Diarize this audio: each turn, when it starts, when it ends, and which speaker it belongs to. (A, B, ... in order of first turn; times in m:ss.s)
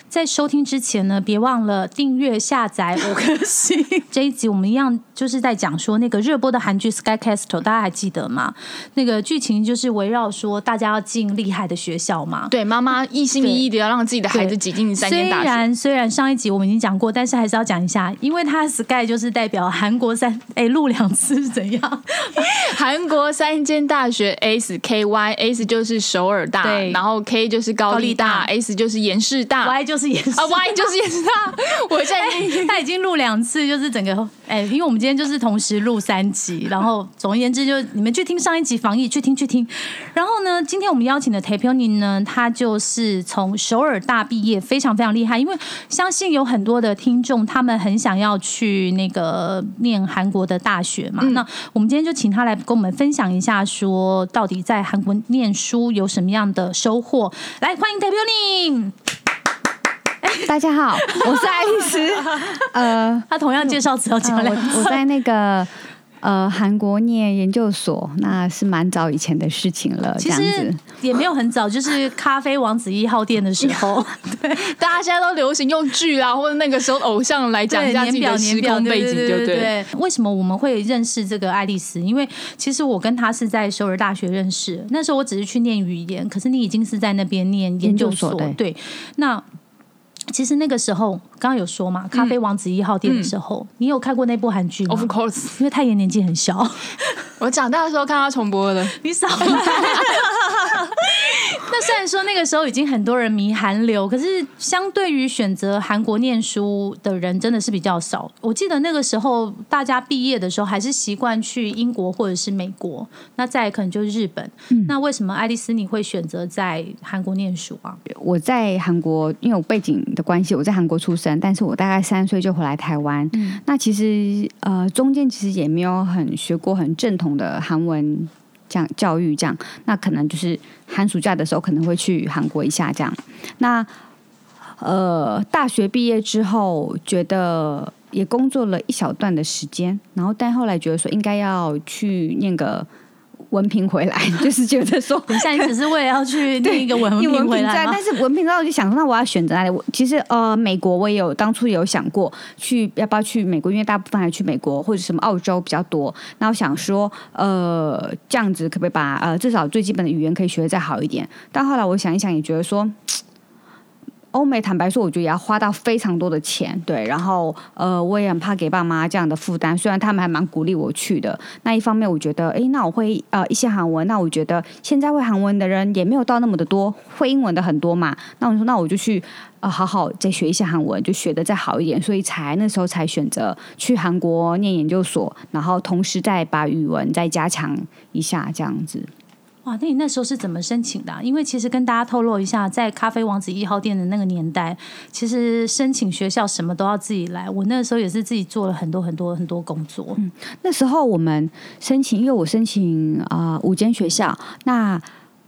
0:00.1-0:12.5 A
0:12.5-0:15.7 B
0:14.3-0:22.5 A
0:22.4-0:29.8 B
0:26.6-0:27.0 A
0:27.9-0:28.5 A
0:29.6-0:30.9 A
0:30.4-0:32.8 B
0:32.2-0:58.9 A
1:00.2-1:02.7 A
1:00.5-1:03.3 C
1:03.3-1:05.0 A
1:04.2-1:10.8 C
1:10.2-1:14.7 A
1:14.6-1:19.7 B
1:17.7-1:29.4 A
1:27.8-1:28.6 C
1:30.3-1:37.0 A
1:33.0-1:33.3 B
1:34.9-1:35.6 B
1:37.4-1:40.3 B
1:39.0-1:58.0 A
1:58.1-2:13.9 C
2:03.3-2:03.6 A
2:14.8-2:22.9 C
2:23.5-2:25.8 C
2:25.3-2:28.0 A
2:26.6-2:43.2 C
2:44.3-3:09.1 C
3:09.6-3:20.2 A
3:20.2-3:25.0 C